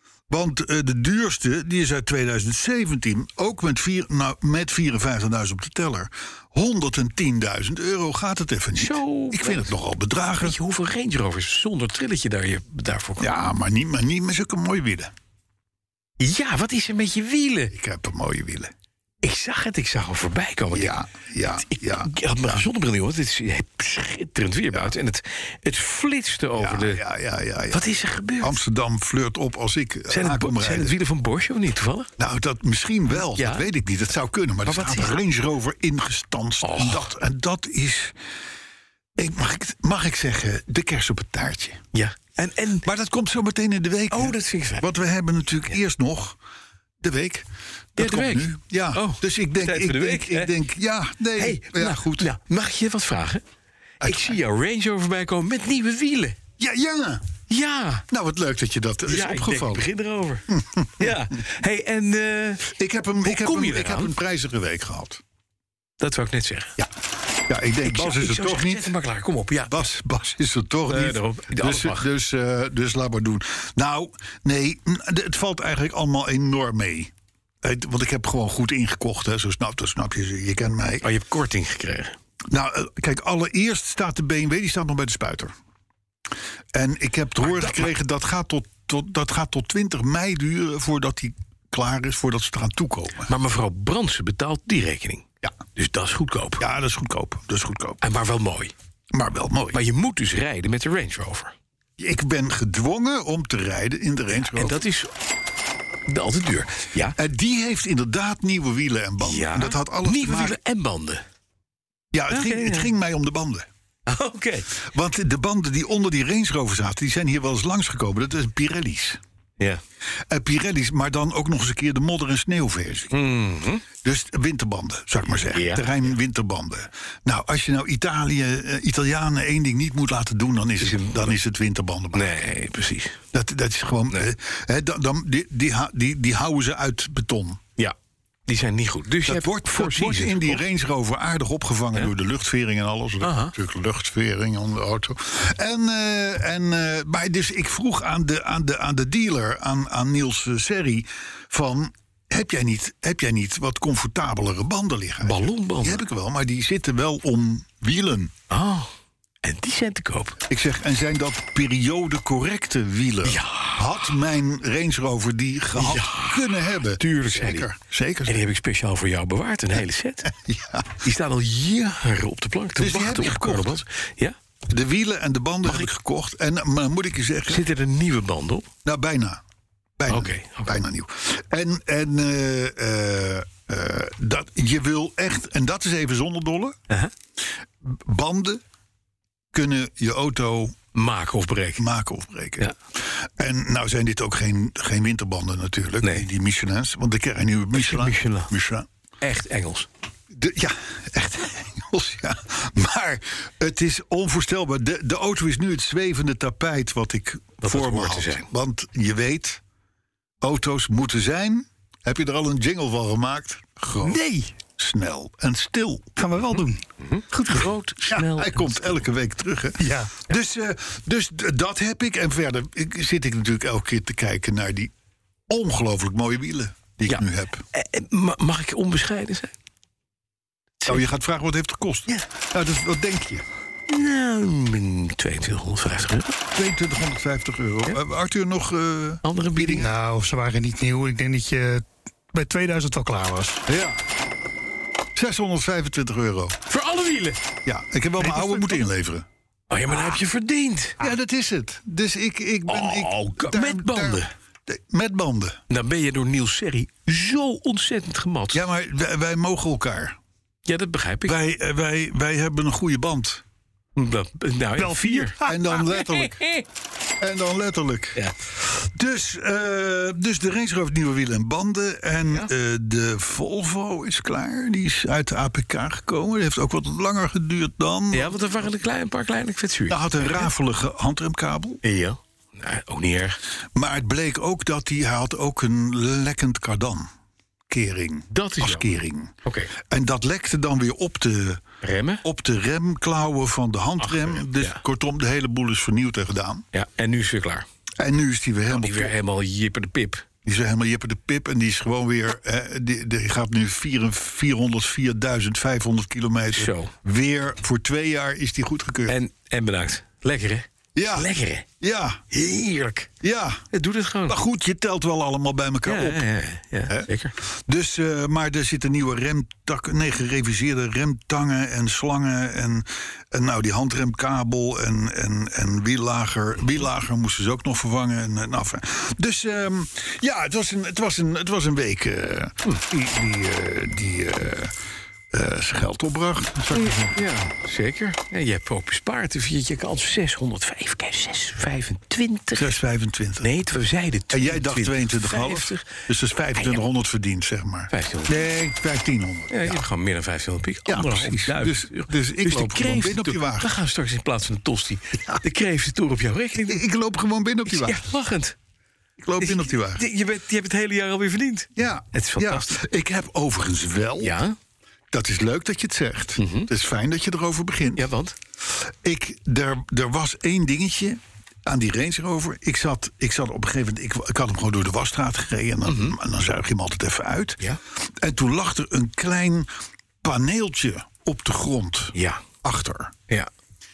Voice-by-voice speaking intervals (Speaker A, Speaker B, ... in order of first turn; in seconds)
Speaker A: 0.3-10.6, 13.2-15.1, 17.7-18.7, 20.7-22.6, 26.6-27.9, 28.4-30.9, 32.2-38.2, 39.2-41.8, 42.8-46.4, 47.0-52.3, 54.0-54.4, 56.6-57.2, 58.1-59.8, 60.5-61.1, 62.7-65.2, 67.5-68.9, 69.7-81.1, 82.5-85.5, 86.7-93.3, 96.6-98.0, 99.1-99.8, 102.0-104.8, 107.2-110.6, 112.1-113.7, 114.8-119.2, 120.3-123.2, 124.0-132.4, 133.3-137.6, 139.2-158.3, 160.5-168.4, 170.3-171.0, 172.8-173.8, 174.7-177.7, 178.8-179.4, 180.0-186.8, 187.8-188.6, 189.5-190.8, 191.8-198.9, 200.3-209.6, 210.4-214.2, 214.7-216.2, 218.1-224.9, 225.5-227.7, 230.9-233.4, 236.5-239.9, 243.7-244.0, 245.2-246.6, 247.7-249.3, 251.0-255.6, 258.5-260.2, 261.2-263.4, 265.4-266.4, 267.2-278.4, 279.9-281.8, 283.8-287.1, 287.7-291.6, 292.2-296.6, 298.0-299.1, 300.4-309.2, 311.0-312.2, 313.2-313.6, 314.3-316.2, 316.9-334.7, 335.3-337.2, 342.6-343.5, 344.3-349.8, 350.9-353.7, 356.7-358.0, 359.2-360.0, 361.8-364.4, 365.1-368.1, 368.7-379.7, 380.2-383.1
Speaker B: 8.8-9.7, 10.4-13.3, 16.2-17.7, 19.2-21.0, 21.7-27.0, 27.7-28.6, 30.1-32.1, 33.3-33.7, 34.7-35.1, 36.6-37.1, 41.9-42.9, 44.1-44.9, 48.0-50.5, 51.4-53.4, 54.0-56.4, 57.5-58.1, 59.1-62.7, 63.2-64.1, 66.0-66.8, 67.8-69.9, 70.9-72.0, 81.0-82.2, 87.4-87.9, 93.3-95.2, 95.8-96.6, 98.0-98.7, 99.7-101.5, 104.3-105.1, 106.1-107.2, 109.2-111.2, 112.3-112.9, 114.1-114.7, 123.1-123.8, 125.5-126.0, 130.8-131.4, 132.1-133.2, 138.5-140.6, 143.2-143.5, 155.2-156.0, 158.5-158.9, 159.4-160.4, 163.2-164.1, 165.8-167.7, 168.3-170.3, 171.0-174.4, 175.7-175.9, 177.5-178.7, 180.1-180.7, 190.9-191.8, 197.7-198.5, 199.2-199.9, 207.6-208.5, 217.0-219.1, 227.1-229.5, 233.9-236.4, 239.2-239.9, 246.7-247.4, 248.2-248.8, 249.7-251.0, 252.7-254.3, 255.7-258.7, 260.7-261.4, 264.0-266.6, 278.1-280.5, 281.8-283.4, 288.3-288.9, 289.4-289.7, 291.8-292.2, 294.0-294.8, 296.7-297.7, 298.7-300.3, 306.5-306.9, 309.1-311.7, 312.3-313.1, 313.7-314.4, 315.9-317.4, 336.7-342.8, 343.4-345.9, 346.6-346.9, 347.9-348.4, 349.5-356.8, 357.7-358.6, 359.4-362.7, 364.2-364.6, 366.4-366.7, 368.0-368.4, 375.9-376.2, 382.1-382.4
Speaker C: 214.1-214.5, 216.2-217.7, 219.8-220.1, 239.8-243.7, 264.8-265.6